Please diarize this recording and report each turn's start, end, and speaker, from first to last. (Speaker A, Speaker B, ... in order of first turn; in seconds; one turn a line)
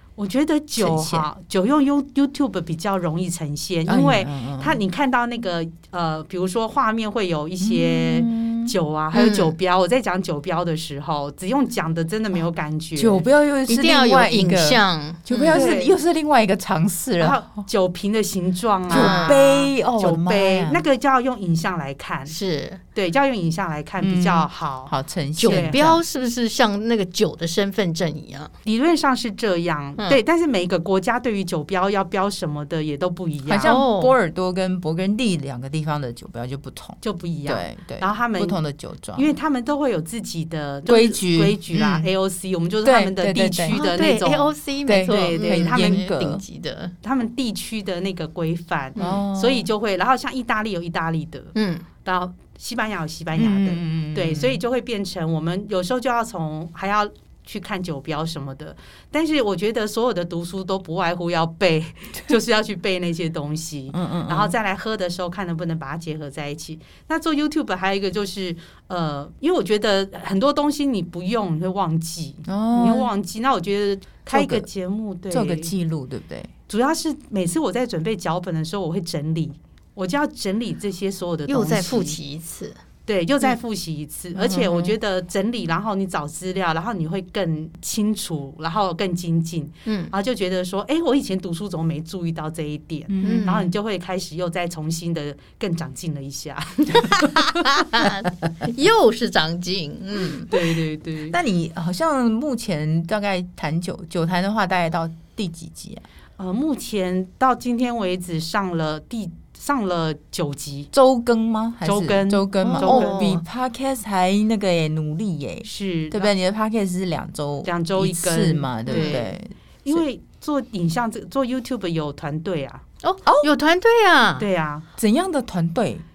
Speaker A: 0.2-13.2
Speaker B: 0.8-1.3
Speaker B: 3.9-4.8
Speaker B: 7.6-8.7
Speaker C: 9.1-9.5
Speaker B: 12.9-17.4
Speaker C: 13.7-15.7
Speaker A: 15.5-15.9
Speaker A: 17.2-22.4
Speaker C: 18.9-19.4
Speaker B: 18.9-20.8
Speaker C: 22.3-22.8
Speaker A: 22.9-24.9
Speaker B: 24.0-26.0
Speaker C: 25.4-28.5
Speaker A: 25.5-25.8
Speaker A: 28.6-33.7
Speaker B: 33.5-39.3
Speaker C: 33.6-34.1
Speaker A: 37.0-38.6
Speaker A: 39.1-44.5
Speaker B: 40.9-42.1
Speaker B: 42.8-43.8
Speaker C: 43.7-46.9
Speaker B: 44.9-46.4
Speaker A: 45.0-46.0
Speaker A: 47.0-75.7
Speaker B: 49.0-49.7
Speaker C: 51.5-51.9
Speaker B: 53.4-54.6
Speaker B: 63.9-64.5
Speaker B: 72.5-73.1
Speaker B: 74.3-74.7
Speaker B: 75.3-76.5
Speaker A: 76.7-82.2
Speaker C: 81.5-82.8
Speaker A: 83.1-97.8
Speaker B: 84.3-84.9
Speaker C: 89.8-90.1
Speaker B: 93.1-93.7
Speaker C: 93.2-93.7
Speaker C: 97.6-100.5
Speaker A: 100.5-101.4
Speaker B: 101.3-106.0
Speaker A: 106.4-110.9
Speaker B: 110.9-120.0
Speaker A: 111.8-113.4
Speaker C: 112.6-113.4
Speaker A: 115.6-116.3
Speaker A: 117.6-119.3
Speaker C: 118.9-119.2
Speaker A: 119.8-122.8
Speaker C: 123.0-124.5
Speaker A: 124.4-124.8
Speaker B: 125.0-126.0